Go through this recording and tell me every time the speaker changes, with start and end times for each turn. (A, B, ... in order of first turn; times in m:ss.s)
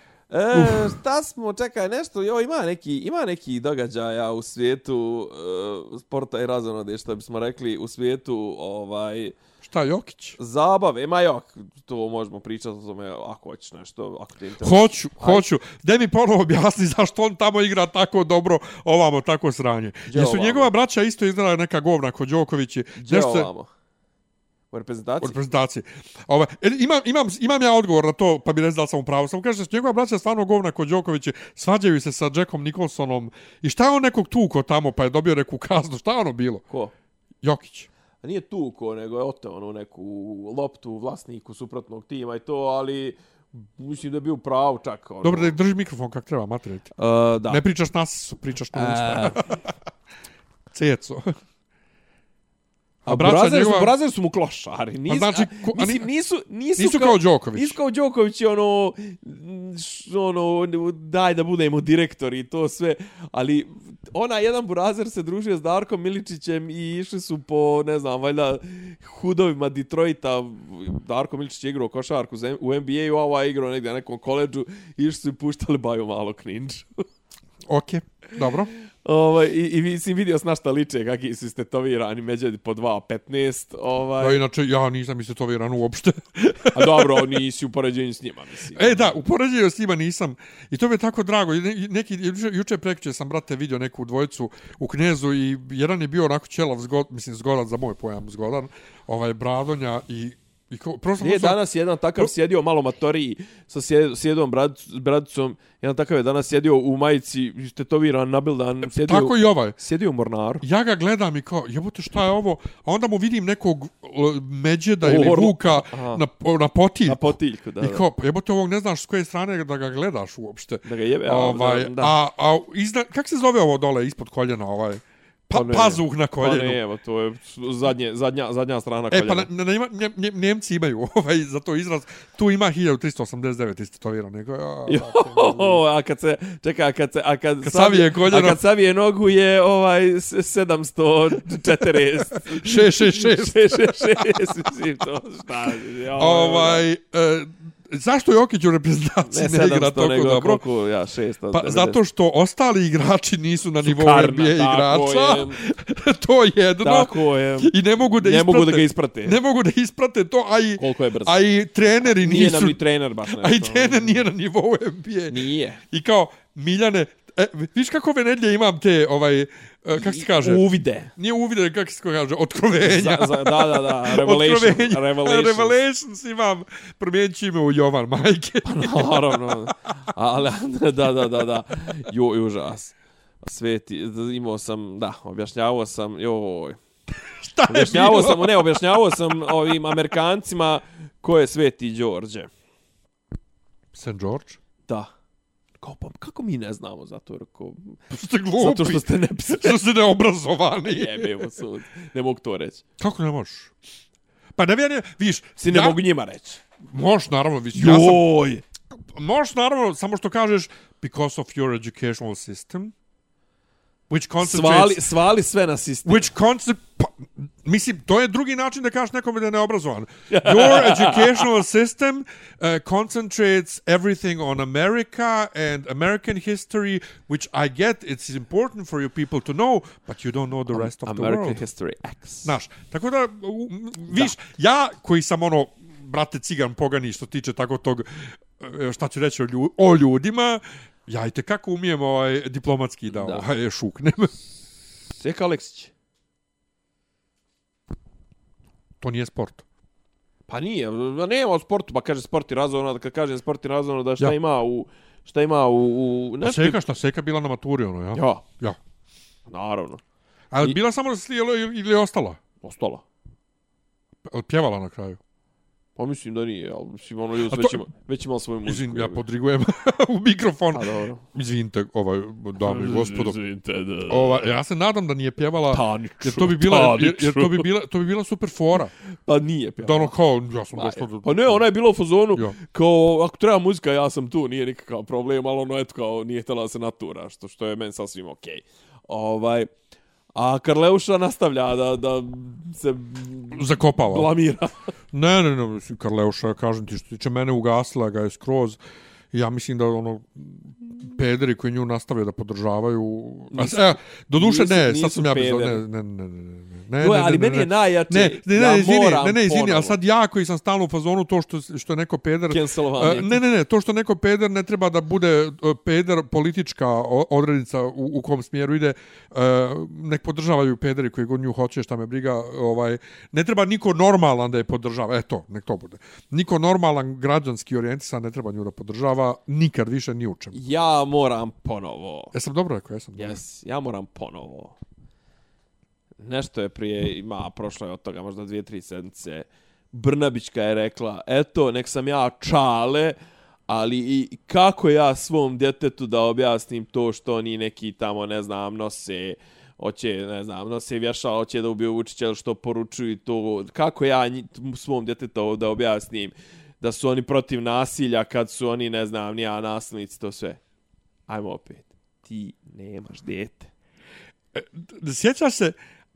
0:00.3-0:09.4 A
0:00.5-0:01.0 B
0:09.6-0:10.4 B
0:10.4-0:15.4 A
0:14.6-0:23.5 B
0:20.1-0:20.7 A
0:23.0-0:23.7 A
0:24.7-0:25.4 A
0:25.2-0:36.6 B
0:37.4-0:37.9 B
0:38.2-0:45.6 A
0:45.2-0:46.9 B
0:47.0-0:47.6 A
0:47.5-0:49.7 B
0:48.7-0:49.5 A
0:50.7-0:51.3 B
0:53.0-0:53.9 B
0:53.1-1:17.0 A
0:55.1-0:56.1 B
0:56.8-0:57.8 B
1:17.7-1:18.7 B
1:19.0-1:24.4 A
1:24.2-1:27.3 B
1:26.7-1:29.1 A
1:28.7-1:41.6 B
1:41.2-1:50.6 A
1:48.8-1:49.8 B
1:50.6-2:06.8 B
1:55.0-1:56.2 A
1:57.0-1:58.0 A
2:00.8-2:02.2 A
2:05.5-2:09.5 A
2:09.1-2:15.8 B
2:14.9-2:26.8 A
2:17.6-2:18.6 B
2:21.7-2:24.5 B
2:26.2-2:30.6 B
2:29.3-2:32.0 A
2:31.5-2:45.4 B
2:33.8-2:35.6 A
2:36.8-2:39.4 A
2:40.8-2:41.4 A
2:42.2-2:44.2 A
2:45.3-2:45.8 A
2:45.9-2:50.6 B
2:50.0-2:51.1 A
2:51.2-2:59.6 B
2:52.8-2:55.8 A
2:58.6-3:06.8 A
3:07.4-3:09.9 B
3:07.7-3:12.5 A
3:13.9-3:14.6 B
3:15.8-3:18.0 A
3:18.1-3:21.5 B
3:18.6-3:19.8 A
3:20.9-3:22.8 A
3:23.0-3:23.7 B
3:24.6-3:26.0 B
3:25.6-3:26.6 A
3:26.9-3:28.3 B
3:27.7-3:28.6 A
3:29.1-3:32.9 B
3:34.1-3:35.0 B
3:34.4-3:36.3 A
3:36.1-3:51.6 B
3:40.3-3:41.6 A
3:50.7-3:52.5 A
3:52.4-4:04.3 B
4:03.1-4:03.4 A
4:05.1-4:05.9 A
4:09.0-4:09.6 B
4:10.5-4:16.8 A
4:16.4-4:18.8 B
4:18.2-4:18.4 A
4:19.5-4:20.0 A
4:20.5-4:22.4 B
4:22.6-4:23.0 A
4:24.3-4:25.2 B
4:26.0-4:29.2 A
4:27.4-4:27.8 B
4:28.6-4:33.4 B
4:30.7-4:31.2 A
4:32.6-4:34.5 A
4:34.1-4:38.9 B
4:35.7-4:37.7 A
4:39.3-4:40.1 A
4:39.8-4:41.6 B
4:40.7-4:49.7 A
4:50.4-4:54.8 A
4:53.5-4:54.3 B
4:55.1-4:58.8 B
4:59.3-5:30.6 B
5:03.5-5:05.8 A
5:07.0-5:10.0 A
5:12.5-5:13.4 A
5:30.5-5:32.3 A
5:32.3-5:33.4 B
5:33.2-5:34.8 A
5:36.2-5:43.2 A
5:43.7-6:00.6 A
6:01.3-6:03.7 A
6:04.5-6:05.8 B